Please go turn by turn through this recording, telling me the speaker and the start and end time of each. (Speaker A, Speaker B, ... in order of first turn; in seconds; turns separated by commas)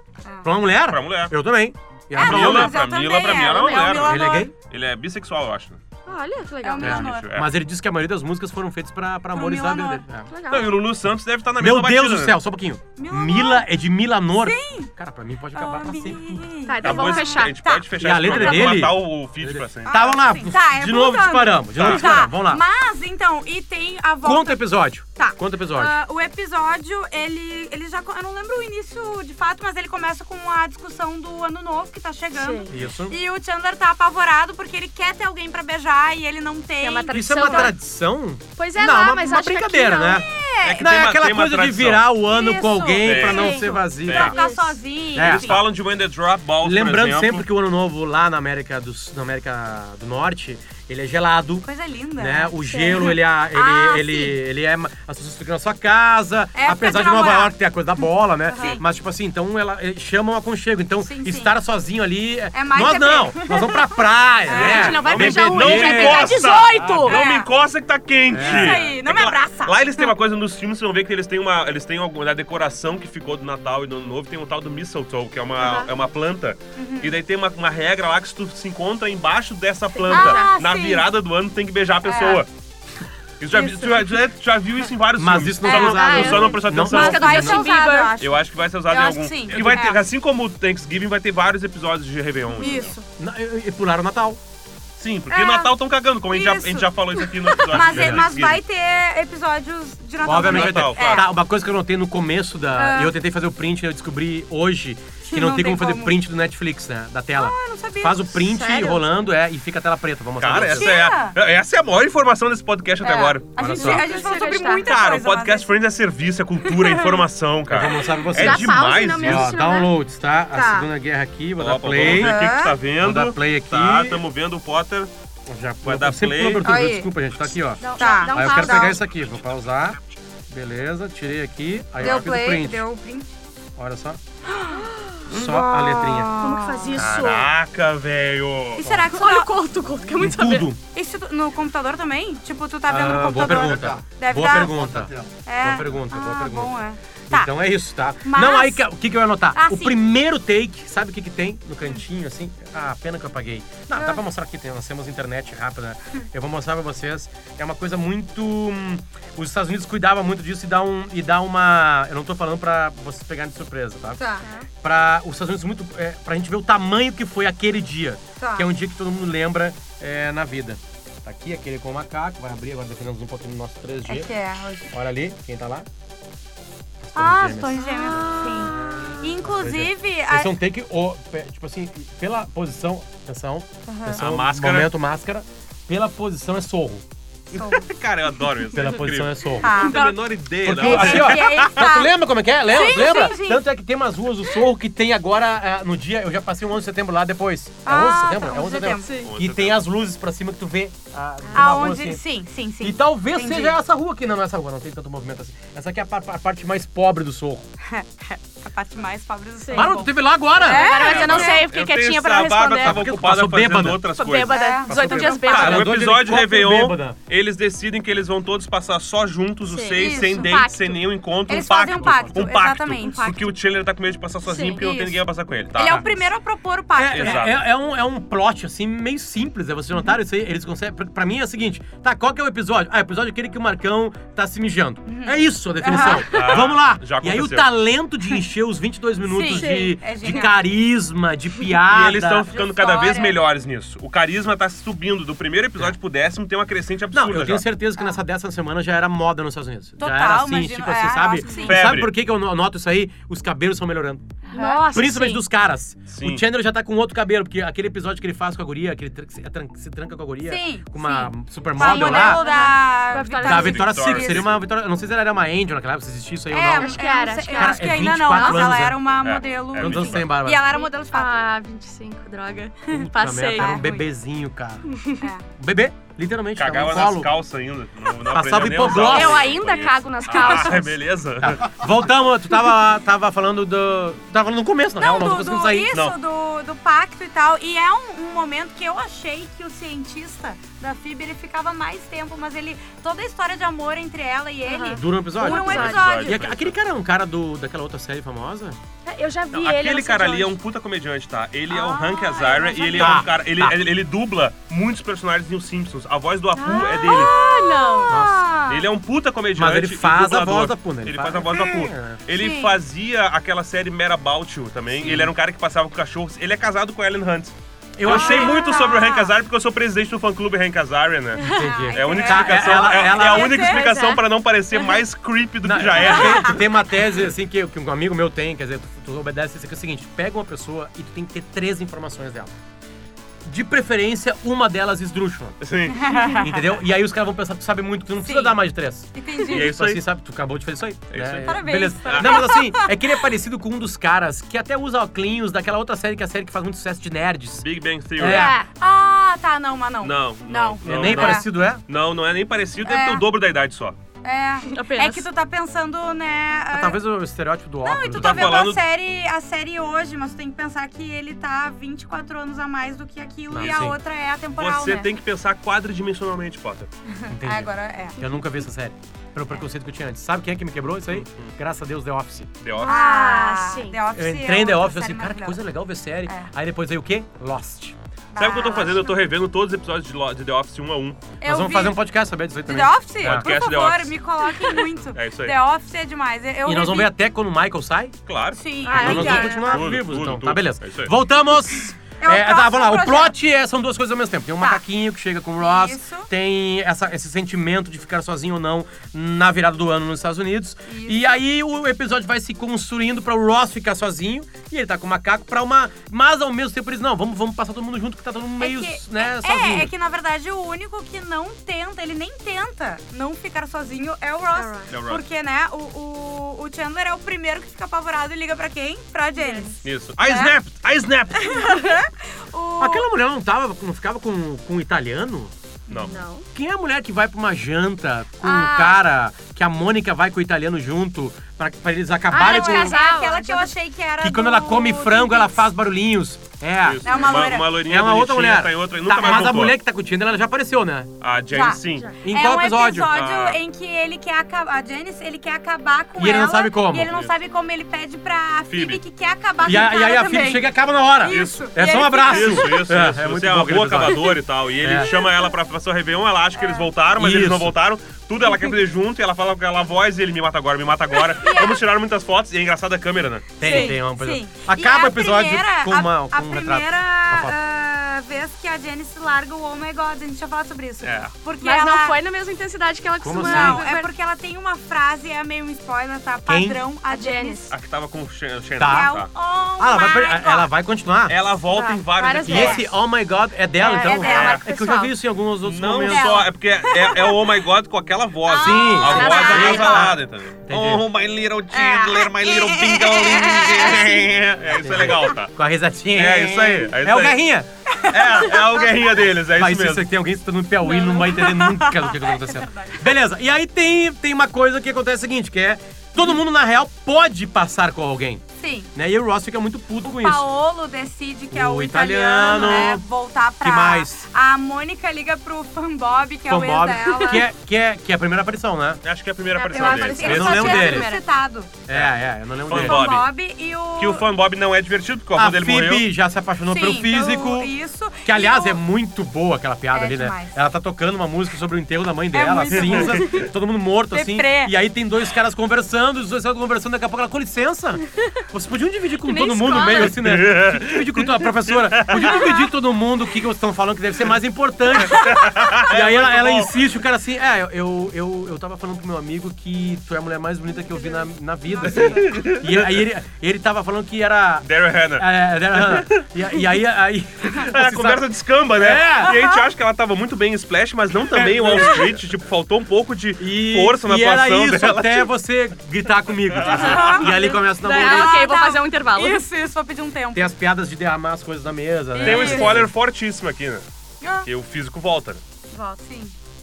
Speaker A: 0.2-0.5, Speaker B: 0.4-2.8, Speaker C: 0.8-1.3, Speaker A: 2.1-4.5, Speaker C: 2.2-5.8, Speaker D: 3.3-3.9, Speaker B: 3.8-4.5, Speaker D: 6.0-7.1, Speaker A: 6.6-7.3, Speaker B: 6.8-10.3, Speaker C: 6.8-7.5, Speaker A: 9.3-10.0, Speaker D: 10.3-10.8, Speaker C: 10.5-12.4, Speaker B: 11.6-16.4, Speaker A: 13.0-13.7, Speaker A: 14.4-14.9, Speaker A: 15.5-17.9, Speaker D: 16.6-17.6, Speaker C: 16.8-20.1, Speaker B: 18.0-22.6, Speaker D: 18.2-18.8, Speaker A: 19.9-24.6, Speaker C: 21.8-22.1, Speaker B: 24.2-25.9, Speaker A: 25.1-37.7, Speaker D: 32.3-32.7, Speaker B: 32.7-33.2, Speaker D: 36.8-37.8, Speaker B: 37.1-44.3, Speaker D: 38.6-40.2, Speaker A: 40.0-40.9, Speaker C: 40.6-42.1, Speaker A: 42.3-45.6, Speaker C: 43.0-44.3, Speaker D: 43.0-44.8, Speaker B: 45.1-45.6, Speaker C: 45.2-47.4, Speaker B: 46.6-67.0, Speaker A: 51.6-54.4, Speaker D: 52.7-53.0, Speaker A: 56.5-57.5, Speaker A: 58.5-58.8, Speaker A: 61.0-61.5, Speaker A: 62.5-65.0, Speaker D: 64.5-67.2, Speaker C: 64.5-82.5, Speaker A: 67.0-67.5, Speaker B: 68.3-68.9, Speaker A: 68.3-70.1, Speaker D: 75.6-75.9, Speaker A: 76.8-77.1, Speaker D: 79.9-80.5, Speaker A: 80.1-81.1, Speaker A: 82.0-82.4, Speaker C: 83.4-87.5, Speaker A: 83.5-84.1, Speaker B: 85.2-87.6, Speaker A: 85.6-90.0, Speaker D: 85.7-88.1, Speaker C: 88.2-92.9, Speaker A: 92.5-93.0, Speaker D: 92.6-92.9, Speaker B: 93.2-94.4, Speaker C: 95.0-98.6, Speaker A: 95.3-95.8, Speaker A: 96.3-101.3, Speaker B: 97.8-98.2, Speaker B: 100.2-110.9, Speaker C: 100.4-101.2, Speaker A: 102.8-103.1, Speaker A: 105.2-106.2, Speaker A: 107.3-108.3, Speaker D: 108.4-109.0, Speaker C: 110.4-113.5, Speaker A: 110.6-111.3, Speaker A: 113.0-115.7, Speaker B: 113.6-114.1, Speaker D: 113.7-114.9, Speaker C: 114.8-119.5, Speaker A: 116.7-117.2, Speaker B: 117.7-122.4, Speaker D: 118.2-119.9, Speaker C: 121.6-125.1, Speaker A: 122.0-122.8, Speaker B: 123.0-124.2, Speaker B: 125.5-130.0, Speaker C: 125.8-126.7, Speaker A: 126.6-127.1, Speaker D: 127.8-129.0, Speaker A: 128.0-129.0, Speaker B: 130.5-132.8, Speaker C: 132.0-132.2, Speaker A: 132.0-133.3, Speaker B: 133.8-134.2, Speaker A: 134.5-137.0, Speaker D: 134.8-135.2, Speaker B: 135.3-136.3, Speaker D: 136.4-137.5, Speaker C: 136.9-138.8, Speaker A: 138.8-139.5, Speaker B: 138.8-139.1, Speaker D: 139.1-140.7, Speaker B: 140.2-140.8, Speaker A: 140.9-147.5, Speaker B: 142.9-146.7, Speaker B: 147.3-164.2, Speaker A: 148.2-148.9, Speaker A: 149.5-150.0, Speaker A: 153.9-154.2, Speaker A: 164.2-164.4, Speaker B: 164.8-174.3, Speaker A: 168.4-168.7, Speaker A: 174.1-174.9, Speaker B: 174.9-175.8, Speaker B: 177.0-178.2, Speaker A: 177.1-180.5, Speaker D: 177.8-179.0, Speaker B: 179.4-187.0, Speaker A: 183.9-184.2, Speaker C: 184.1-184.9, Speaker C: 187.5-191.9, Speaker A: 187.5-187.9, Speaker B: 188.7-189.7, Speaker A: 189.6-190.1, Speaker D: 189.8-190.1, Speaker B: 190.6-202.2, Speaker A: 190.7-192.1, Speaker A: 192.7-193.6, Speaker A: 197.8-199.1, Speaker D: 199.0-199.3, Speaker C: 199.2-199.8, Speaker A: 201.5-203.8, Speaker B: 202.8-207.7, Speaker A: 207.8-211.7, Speaker D: 209.6-209.9, Speaker B: 209.7-210.9, Speaker D: 210.6-213.0, Speaker C: 210.9-214.6, Speaker B: 212.8-214.1, Speaker D: 214.2-215.9, Speaker A: 214.5-215.8, Speaker B: 214.8-217.2, Speaker C: 215.5-226.3, Speaker D: 219.7-221.0, Speaker A: 219.9-220.6, Speaker A: 221.5-223.4, Speaker B: 221.9-222.4, Speaker D: 223.0-223.5, Speaker D: 224.4-225.1, Speaker A: 224.8-225.1, Speaker A: 225.7-227.5, Speaker B: 226.9-242.5, Speaker C: 227.1-227.6, Speaker A: 235.1-236.2, Speaker D: 235.9-236.6, Speaker C: 236.3-237.7, Speaker A: 239.3-240.6, Speaker D: 239.5-240.0, Speaker C: 241.8-247.7, Speaker A: 242.5-243.4, Speaker B: 247.1-254.3, Speaker A: 250.0-251.8, Speaker C: 251.6-252.1, Speaker A: 254.5-254.8, Speaker D: 254.5-255.4, Speaker B: 254.9-262.4, Speaker C: 256.1-256.4, Speaker A: 260.4-264.5, Speaker D: 261.8-263.8, Speaker B: 263.4-269.0, Speaker C: 263.5-264.6, Speaker A: 266.5-271.4, Speaker D: 266.8-268.8, Speaker C: 269.2-270.3, Speaker B: 269.8-270.6, Speaker D: 270.7-273.9, Speaker B: 272.9-274.8, Speaker A: 273.5-274.0, Speaker D: 274.9-275.2, Speaker B: 275.6-277.3, Speaker C: 276.6-281.7, Speaker B: 278.3-279.6, Speaker D: 278.8-280.9, Speaker B: 281.4-285.9, Speaker A: 285.0-296.4, Speaker D: 294.7-296.3, Speaker B: 294.9-298.8, Speaker C: 295.5-296.8, Speaker D: 299.0-300.6, Speaker C: 299.5-307.3, Speaker A: 301.7-303.3, Speaker B: 303.0-303.8, Speaker D: 306.6-308.1, Speaker A: 307.0-308.8, Speaker B: 308.1-308.4, Speaker C: 308.7-326.6, Speaker B: 309.5-312.2, Speaker A: 312.3-312.7, Speaker B: 315.0-315.3, Speaker B: 318.0-318.6, Speaker A: 318.0-319.3, Speaker D: 321.4-321.7, Speaker B: 321.4-323.8, Speaker A: 321.6-323.9, Speaker D: 323.6-325.0, Speaker B: 325.6-332.5, Speaker A: 326.0-326.6, Speaker B: 333.4-335.6, Speaker C: 335.6-336.1, Speaker A: 335.9-336.6, Speaker B: 336.4-347.6, Speaker A: 338.2-338.6, Speaker A: 339.1-339.7, Speaker C: 339.5-340.0, Speaker C: 341.1-342.5, Speaker A: 341.4-342.9, Speaker C: 347.6-348.6, Speaker B: 348.1-348.6, Speaker D: 348.2-348.6, Speaker A: 348.3-351.5, Speaker C: 350.0-354.0, Speaker B: 350.8-351.8, Speaker A: 352.8-353.2, Speaker A: 354.2-357.0, Speaker D: 354.7-355.2, Speaker B: 356.7-358.7, Speaker A: 357.8-365.1, Speaker C: 358.1-358.8, Speaker B: 363.5-364.0, Speaker C: 363.5-363.9, Speaker C: 364.5-366.9, Speaker A: 367.2-368.2, Speaker B: 367.3-372.5, Speaker C: 371.1-371.5, Speaker C: 372.6-372.9, Speaker D: 372.8-374.0, Speaker A: 372.8-375.6, Speaker B: 374.1-377.9, Speaker A: 378.3-379.2, Speaker C: 378.4-381.2, Speaker A: 381.4-382.0, Speaker B: 381.4-383.5, Speaker A: 382.7-387.1, Speaker C: 383.2-384.1, Speaker C: 385.1-385.6, Speaker B: 386.6-388.1, Speaker C: 388.2-391.1, Speaker A: 388.5-389.8, Speaker D: 388.9-389.8, Speaker B: 388.9-409.9, Speaker A: 392.2-393.3, Speaker A: 395.6-396.3, Speaker A: 400.9-401.4, Speaker A: 408.6-420.6, Speaker D: 414.6-414.9, Speaker C: 414.9-415.2, Speaker D: 419.4-419.7, Speaker C: 419.8-421.8, Speaker A: 421.4-423.1, Speaker B: 422.8-425.5, Speaker C: 425.9-426.1, Speaker D: 425.9-426.4, Speaker B: 426.5-433.0, Speaker A: 428.4-429.0, Speaker D: 432.3-433.7, Speaker A: 432.3-435.6, Speaker B: 434.2-441.1, Speaker C: 436.8-439.7, Speaker A: 437.0-437.8, Speaker A: 439.1-439.5, Speaker C: 441.2-442.1, Speaker A: 441.5-452.9, Speaker B: 442.2-443.2, Speaker C: 443.1-443.6, Speaker B: 446.2-447.1, Speaker C: 447.1-447.3, Speaker C: 448.7-449.0, Speaker B: 449.6-455.1, Speaker C: 451.3-451.6, Speaker C: 452.2-463.5, Speaker A: 454.9-455.4, Speaker A: 456.6-456.9, Speaker B: 457.1-457.7, Speaker A: 461.4-461.8, Speaker B: 463.6-467.6, Speaker A: 463.6-472.2, Speaker D: 463.6-463.9, Speaker C: 471.0-471.3, Speaker D: 471.6-474.1, Speaker B: 473.2-473.8, Speaker A: 473.4-477.7, Speaker B: 476.5-476.8, Speaker D: 477.1-477.7, Speaker C: 477.7-479.3, Speaker B: 478.8-479.1, Speaker A: 478.8-480.7, Speaker B: 479.8-481.4, Speaker C: 481.3-482.9, Speaker D: 481.7-482.9, Speaker B: 482.4-486.3, Speaker D: 483.8-485.1, Speaker A: 483.9-484.6, Speaker C: 485.6-495.5, Speaker A: 486.0-487.4, Speaker A: 488.4-490.1, Speaker B: 488.6-491.0, Speaker D: 489.1-490.0, Speaker A: 491.7-494.3, Speaker B: 494.7-497.7, Speaker C: 496.1-497.4, Speaker A: 497.9-499.0, Speaker C: 498.1-500.1, Speaker B: 499.5-508.4, Speaker D: 500.9-501.2, Speaker A: 500.9-503.0, Speaker A: 508.6-508.9, Speaker B: 508.9-510.4, Speaker A: 510.0-517.5, Speaker B: 511.5-513.0, Speaker D: 512.5-512.8, Speaker B: 513.6-514.2, Speaker B: 516.5-519.0, Speaker C: 519.0-521.0, Speaker D: 519.5-521.2, Speaker A: 519.7-521.7, Speaker B: 520.2-521.1, Speaker B: 521.9-523.1, Speaker C: 522.6-523.3, Speaker A: 522.7-524.3, Speaker C: 524.0-526.0, Speaker B: 525.3-527.7, Speaker A: 526.7-528.8, Speaker B: 528.2-559.4, Speaker A: 529.9-530.6, Speaker A: 532.3-533.4, Speaker C: 532.7-533.2, Speaker A: 534.1-534.7, Speaker D: 539.2-540.2, Speaker C: 539.9-542.4, Speaker C: 545.0-546.7, Speaker A: 551.7-552.3, Speaker C: 551.9-553.0, Speaker C: 554.6-556.2, Speaker C: 557.5-565.3, Speaker A: 559.1-559.7, Speaker B: 561.3-562.1, Speaker B: 563.4-568.5, Speaker C: 566.5-567.1, Speaker A: 566.6-570.5, Speaker D: 566.8-569.4, Speaker B: 570.3-572.9, Speaker A: 572.1-572.7, Speaker C: 572.2-573.8, Speaker A: 574.2-574.5, Speaker C: 574.4-575.4, Speaker D: 575.7-576.0, Speaker A: 576.0-576.3